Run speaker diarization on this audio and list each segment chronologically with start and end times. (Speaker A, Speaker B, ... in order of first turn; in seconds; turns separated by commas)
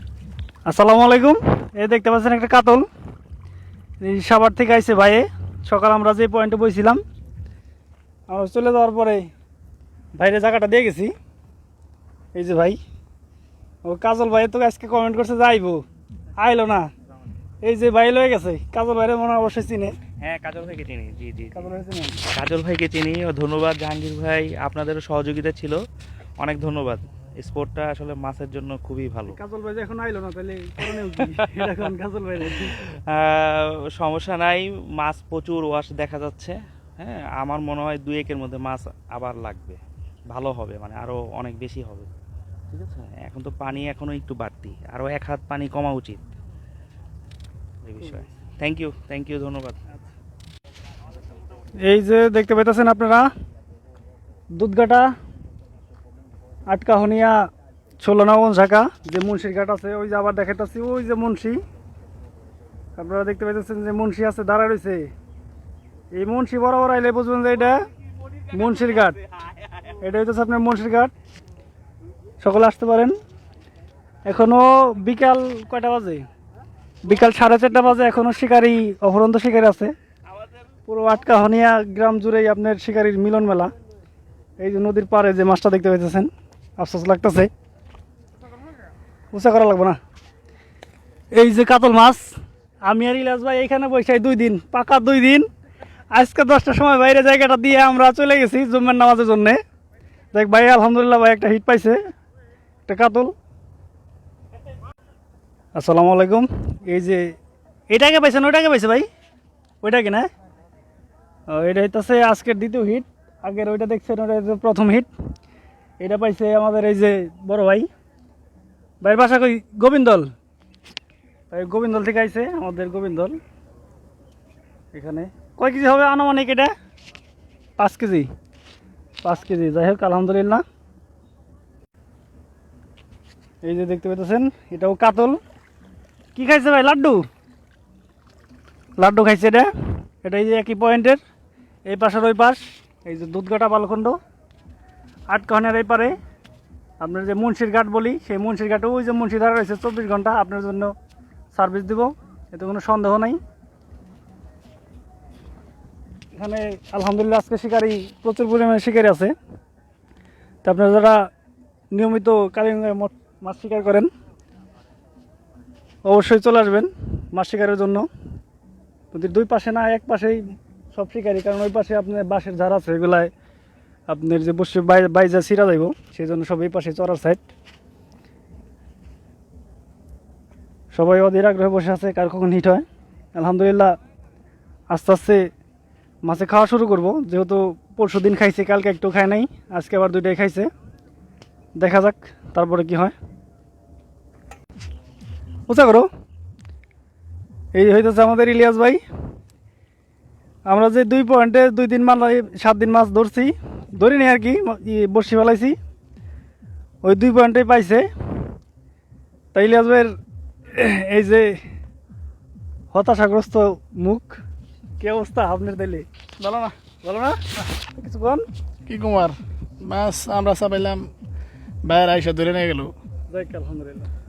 Speaker A: 0.7-2.9, Speaker A: 4.0-7.0, Speaker A: 8.3-9.3, Speaker A: 10.2-11.1, Speaker A: 12.3-12.8, Speaker A: 13.8-15.8, Speaker A: 16.4-16.9, Speaker A: 17.6-19.9, Speaker B: 20.2-21.7, Speaker A: 21.5-22.2, Speaker B: 22.3-25.8, Speaker B: 26.4-29.4, Speaker A: 29.3-32.8, Speaker B: 30.8-31.9, Speaker B: 32.7-39.8, Speaker B: 40.3-42.1, Speaker B: 42.7-46.2, Speaker B: 47.9-49.8, Speaker A: 51.8-53.3, Speaker A: 54.5-55.1, Speaker A: 56.7-57.5, Speaker A: 58.0-61.6, Speaker A: 63.0-65.1, Speaker A: 66.1-67.8, Speaker A: 68.5-69.2, Speaker A: 69.9-71.1, Speaker A: 72.4-73.1, Speaker A: 74.3-76.2, Speaker A: 77.0-79.9, Speaker A: 80.9-83.7, Speaker A: 84.6-87.5, Speaker A: 89.3-90.0, Speaker A: 91.3-95.5, Speaker A: 96.1-99.6, Speaker A: 100.3-102.0, Speaker A: 102.9-103.3, Speaker A: 105.8-107.3, Speaker A: 107.9-109.1, Speaker A: 109.8-110.3, Speaker A: 111.5-115.1, Speaker A: 116.0-117.9, Speaker A: 119.0-120.3, Speaker A: 121.5-123.4, Speaker A: 124.9-126.7, Speaker A: 127.8-128.3, Speaker A: 129.2-130.6, Speaker A: 133.6-135.4, Speaker A: 136.3-137.2, Speaker A: 139.0-139.7, Speaker A: 140.2-141.2, Speaker A: 141.9-144.2, Speaker A: 145.3-146.2, Speaker A: 147.0-150.9, Speaker A: 151.5-153.4, Speaker A: 156.3-159.3, Speaker A: 160.6-161.3, Speaker A: 161.9-164.1, Speaker A: 166.1-168.1, Speaker A: 169.1-170.4, Speaker A: 170.9-173.3, Speaker A: 174.1-177.4, Speaker A: 180.9-184.0, Speaker A: 184.9-185.5, Speaker A: 186.2-190.7, Speaker A: 191.8-193.1, Speaker A: 195.7-196.1, Speaker A: 197.7-199.0, Speaker A: 200.7-205.8, Speaker A: 207.0-208.1, Speaker A: 209.5-210.1, Speaker A: 210.7-211.6, Speaker A: 212.9-214.4, Speaker A: 215.0-218.4, Speaker C: 218.9-221.1, Speaker C: 221.8-222.9, Speaker A: 223.3-224.1